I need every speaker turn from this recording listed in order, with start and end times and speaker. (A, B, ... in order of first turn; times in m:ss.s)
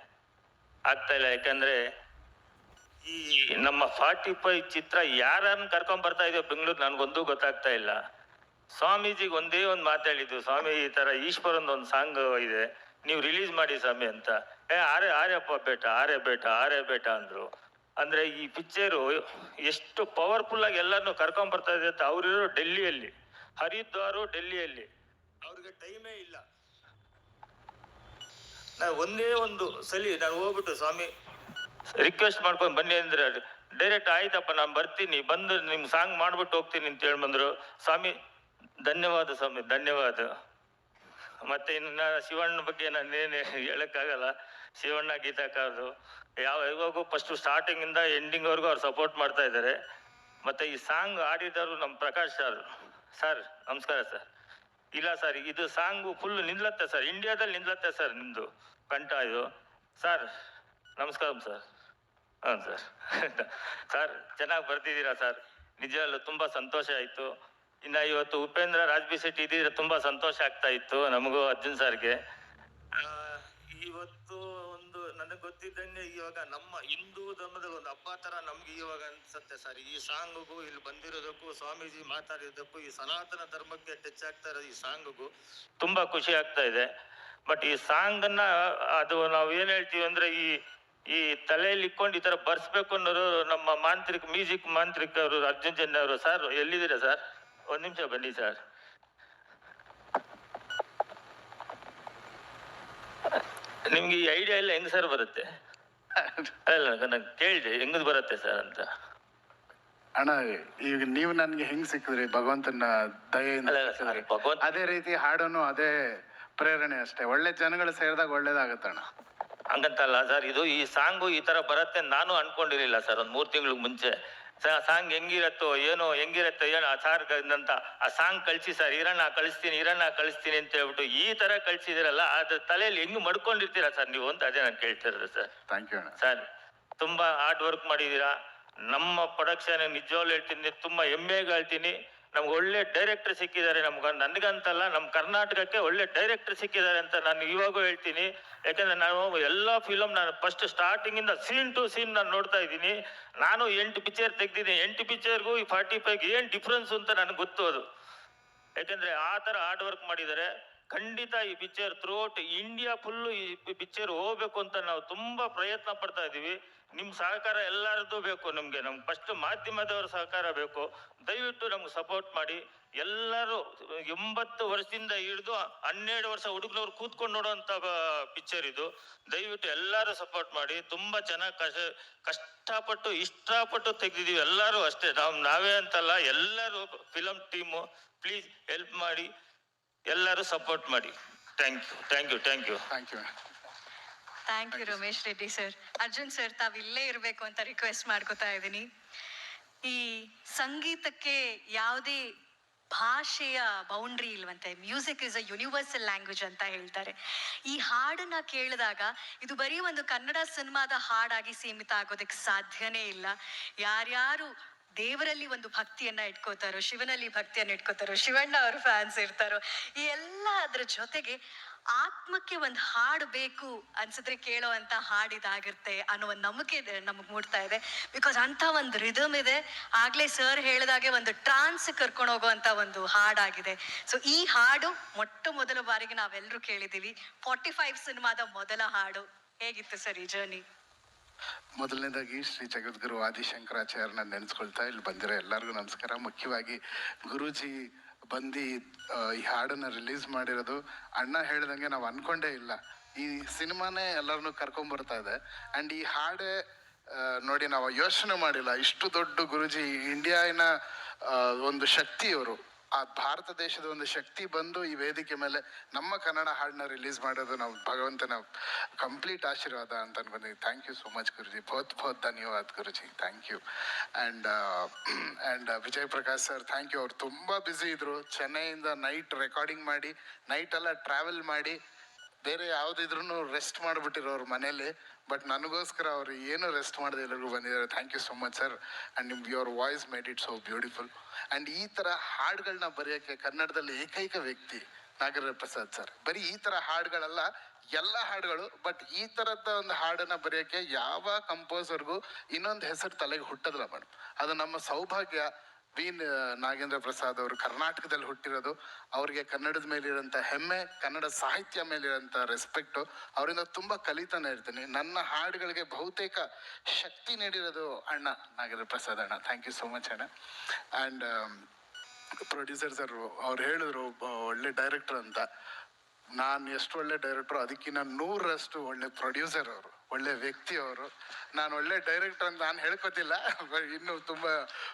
0:00.9-0:01.8 A
0:03.0-0:08.0 A
0:08.8-0:17.5 A
0:18.0-0:24.9 A
0:25.4-0:26.4 A
0:28.8-0:31.1 A
0:32.0-0:38.1 A
0:38.9-0:40.3 A
0:41.4-0:45.9 A
0:46.4-0:49.8 A
0:50.4-0:52.6 A
0:53.2-0:54.3 A
0:55.0-0:59.4 A
1:00.0-1:00.3 A
1:01.0-1:01.6 A
1:02.5-1:07.3 A
1:07.8-1:12.2 A
1:13.0-1:25.3 A
1:25.8-1:26.9 A
1:27.5-1:30.5 A
1:31.1-1:38.6 A
1:43.9-1:45.5 A
1:46.2-1:46.5 B
1:46.7-1:48.9 A
1:50.2-1:55.9 B
1:53.7-1:54.7 A
1:56.6-1:59.1 B
1:59.7-2:04.1 A
2:04.6-2:15.5 A
2:15.7-2:16.2 B
2:17.0-2:18.3 A
2:18.9-2:37.8 A
2:38.8-3:09.3 A
3:10.1-3:12.8 A
3:12.9-3:13.3 B
3:14.5-3:18.9 C
3:14.7-3:15.0 B
3:19.9-3:22.2 C
3:22.9-3:27.2 C
3:27.7-3:33.3 C
3:33.8-3:41.4 C
3:42.0-4:00.6 C
4:01.8-4:16.5 B
4:17.1-4:20.7 B
4:21.2-4:28.4 B
4:29.0-4:33.6 B
4:34.2-4:41.8 B
4:42.4-5:20.3 B
5:21.0-5:21.6 B
5:22.5-5:25.5 B
5:26.4-5:34.6 B